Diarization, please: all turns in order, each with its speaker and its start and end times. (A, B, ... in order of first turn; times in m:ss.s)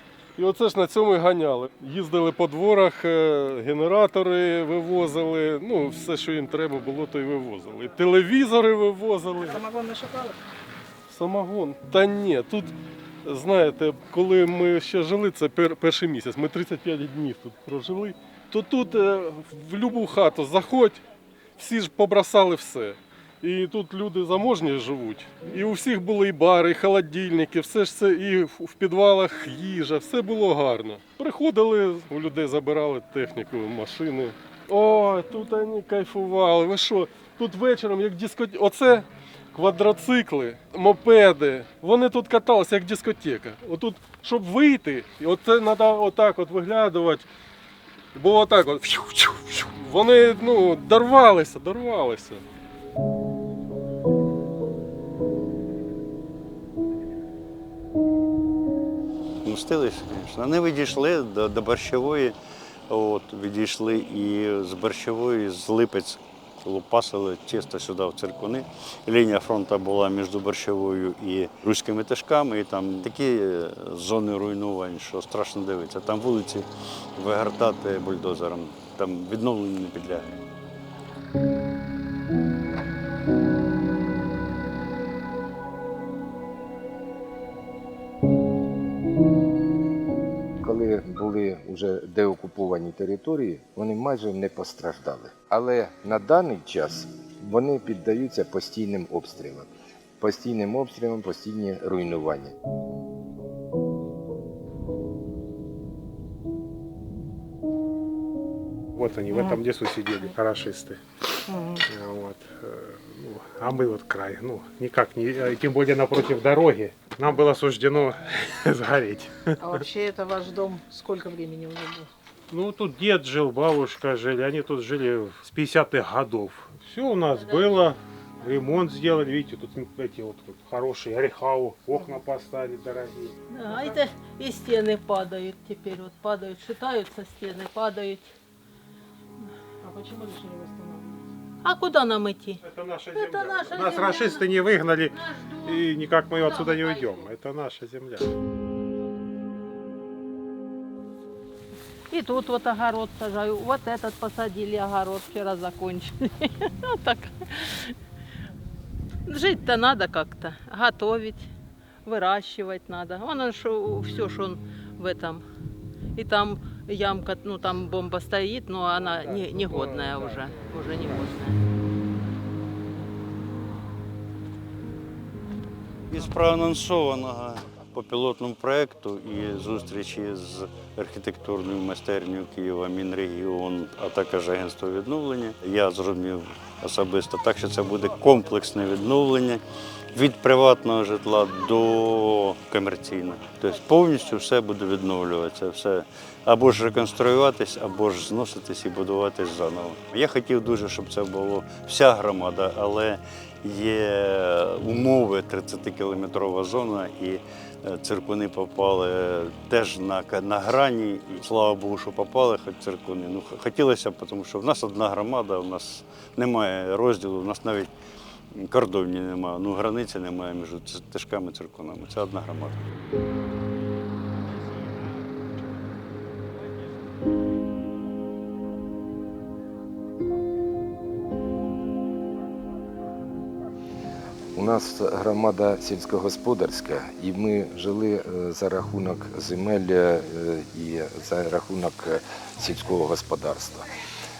0:00.4-0:09.7 A
0:09.5-0:10.4 B
0:11.1-0:21.0 A
0:21.6-0:47.2 A
0:48.1-0:52.4 A
0:59.4-1:02.4 C
1:02.9-1:20.4 C
1:30.6-1:42.5 D
1:49.0-1:51.0 E
1:51.5-1:51.8 B
1:51.8-1:59.8 E
1:59.6-2:02.1 B
2:02.5-2:13.3 E
2:07.4-2:07.7 F
2:13.5-2:18.3 F
2:19.8-2:21.3 B
2:21.6-2:22.6 F
2:22.6-2:28.3 E
2:23.1-2:24.5 F
2:25.1-2:27.3 F
2:32.1-2:38.0 F
2:39.3-2:41.5 F
2:42.0-2:45.4 F
2:46.2-2:51.6 F
2:49.0-2:51.2 E
2:56.1-3:09.6 C
3:10.1-3:37.9 C
3:38.5-3:42.8 C
3:54.6-4:03.9 D